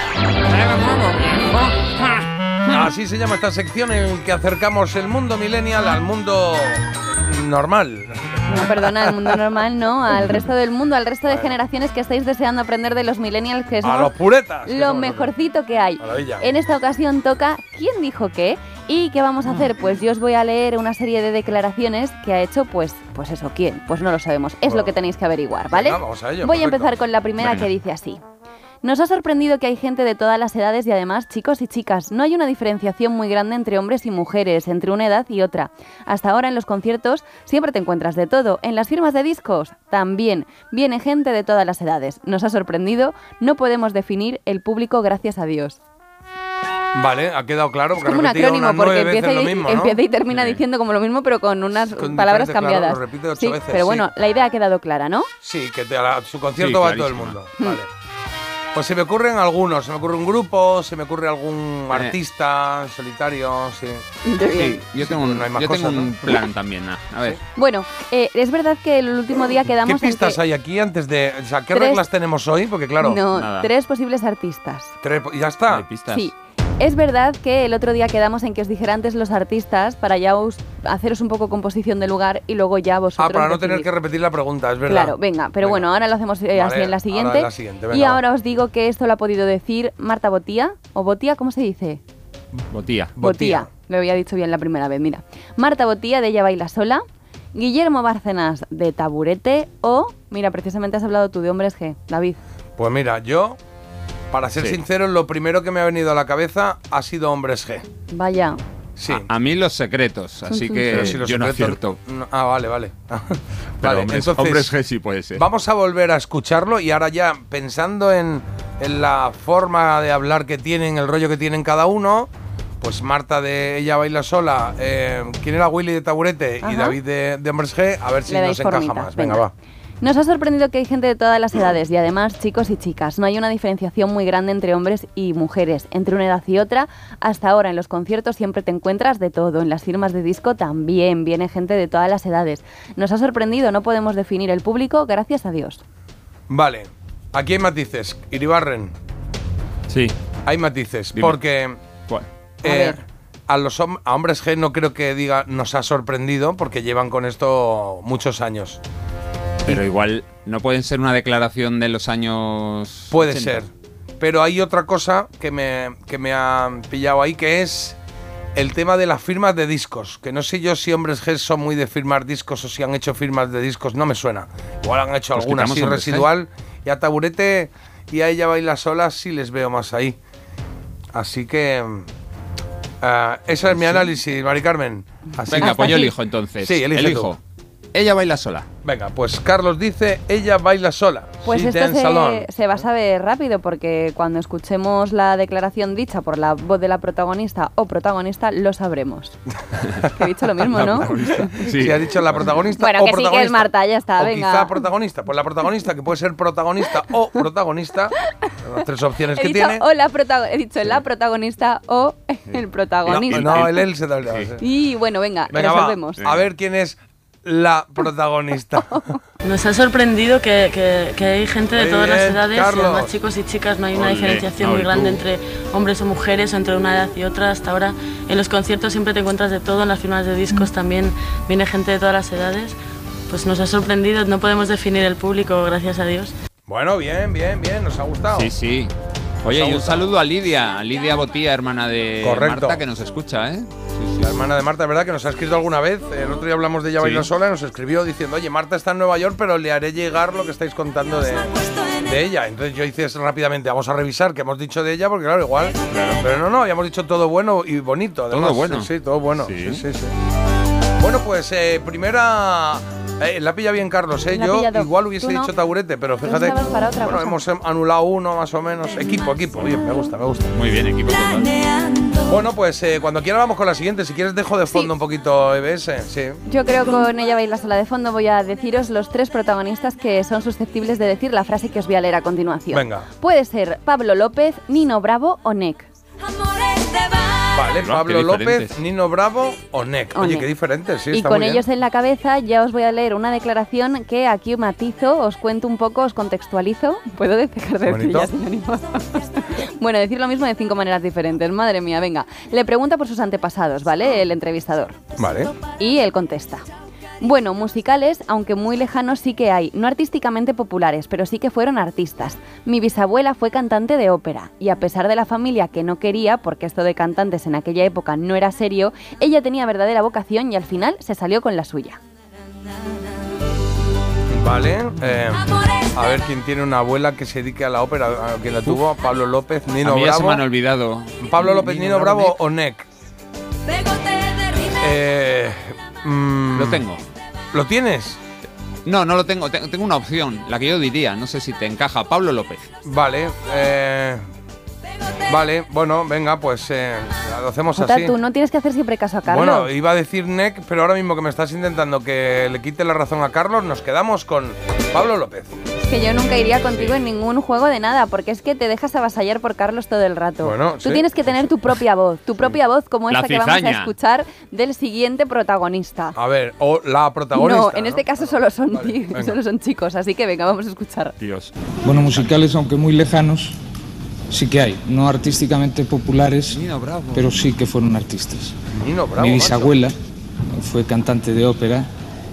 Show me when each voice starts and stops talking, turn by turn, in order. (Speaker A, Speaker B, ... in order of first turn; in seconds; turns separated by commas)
Speaker A: 2.7-8.9, Speaker B: 8.5-14.1, Speaker A: 11.3-11.6, Speaker A: 13.8-15.3, Speaker B: 14.7-28.2, Speaker A: 16.0-16.5, Speaker A: 24.7-24.9, Speaker A: 25.7-26.9, Speaker C: 27.4-27.6, Speaker B: 28.8-45.8, Speaker A: 47.0-50.0, Speaker B: 48.0-55.3, Speaker C: 50.3-50.6, Speaker A: 51.7-54.1, Speaker A: 55.4-57.9, Speaker C: 56.6-57.4, Speaker A: 58.7-64.0, Speaker C: 61.9-62.2, Speaker B: 64.2-64.8, Speaker C: 64.5-67.4, Speaker A: 65.0-66.5, Speaker B: 67.6-70.4, Speaker A: 69.8-73.2, Speaker B: 71.7-72.1, Speaker B: 73.0-74.9, Speaker C: 73.3-73.7, Speaker A: 75.0-75.9, Speaker C: 75.7-76.3, Speaker B: 76.1-83.9, Speaker A: 83.2-85.9, Speaker B: 84.9-92.0, Speaker A: 86.5-88.2, Speaker C: 92.7-93.1, Speaker A: 93.2-93.7, Speaker B: 93.2-97.0, Speaker B: 97.5-102.4, Speaker A: 102.8-103.6, Speaker A: 104.3-107.8, Speaker B: 108.1-108.6, Speaker A: 109.0-109.3, Speaker C: 109.1-112.0, Speaker A: 110.9-114.7, Speaker C: 113.8-115.4, Speaker A: 115.3-129.5, Speaker B: 126.6-127.0, Speaker B: 128.3-129.4, Speaker B: 130.0-145.8, Speaker A: 146.5-148.9, Speaker C: 149.9-150.2, Speaker A: 150.5-151.8, Speaker C: 151.1-151.4, Speaker B: 152.6-153.0, Speaker A: 152.6-158.8, Speaker C: 159.7-163.7, Speaker A: 163.1-168.0, Speaker A: 168.6-180.2, Speaker C: 175.3-176.3, Speaker A: 181.1-182.1, Speaker A: 183.0-187.3, Speaker C: 183.7-184.0, Speaker C: 185.5-187.4, Speaker B: 185.5-186.1, Speaker C: 187.9-188.7, Speaker A: 188.8-192.5, Speaker B: 191.4-199.4, Speaker B: 200.0-201.7, Speaker C: 200.7-202.6, Speaker A: 201.5-209.8, Speaker B: 202.8-204.9, Speaker B: 209.3-213.9, Speaker C: 212.5-214.5, Speaker A: 213.3-214.6, Speaker B: 214.6-216.2, Speaker A: 215.5-219.1, Speaker C: 216.2-216.5, Speaker B: 218.8-219.2, Speaker D: 219.4-232.8, Speaker A: 221.8-223.1, Speaker C: 223.9-225.2, Speaker D: 233.3-236.3, Speaker A: 236.7-238.5, Speaker C: 238.3-244.3, Speaker A: 239.4-240.1, Speaker A: 242.2-242.8, Speaker A: 244.2-260.1, Speaker C: 247.0-247.3, Speaker C: 255.9-256.2, Speaker C: 258.3-259.9, Speaker A: 261.0-270.6, Speaker B: 264.3-265.5, Speaker B: 266.2-267.4, Speaker C: 270.5-271.6, Speaker A: 272.2-276.4, Speaker B: 276.5-285.9, Speaker A: 282.7-283.1, Speaker A: 287.5-291.6, Speaker C: 287.7-288.8, Speaker B: 290.1-290.5, Speaker B: 291.1-305.0, Speaker A: 297.9-298.3, Speaker A: 305.2-305.5, Speaker B: 305.7-306.6, Speaker B: 307.2-322.0, Speaker A: 324.3-330.4, Speaker C: 329.8-332.4, Speaker A: 331.2-332.9, Speaker A: 334.6-336.8, Speaker C: 336.6-337.0, Speaker A: 337.5-338.2, Speaker C: 338.9-342.7, Speaker A: 342.9-344.2, Speaker A: 345.3-348.2, Speaker B: 347.8-349.7, Speaker A: 349.3-355.5, Speaker B: 355.8-366.2, Speaker A: 360.4-361.1, Speaker C: 363.1-363.9, Speaker A: 366.1-369.4, Speaker B: 367.3-371.2, Speaker C: 371.2-372.3, Speaker E: 371.8-373.6, Speaker E: 374.3-376.6, Speaker C: 376.5-377.3, Speaker E: 377.1-378.6, Speaker A: 378.7-379.8, Speaker E: 379.2-379.9, Speaker E: 380.5-381.9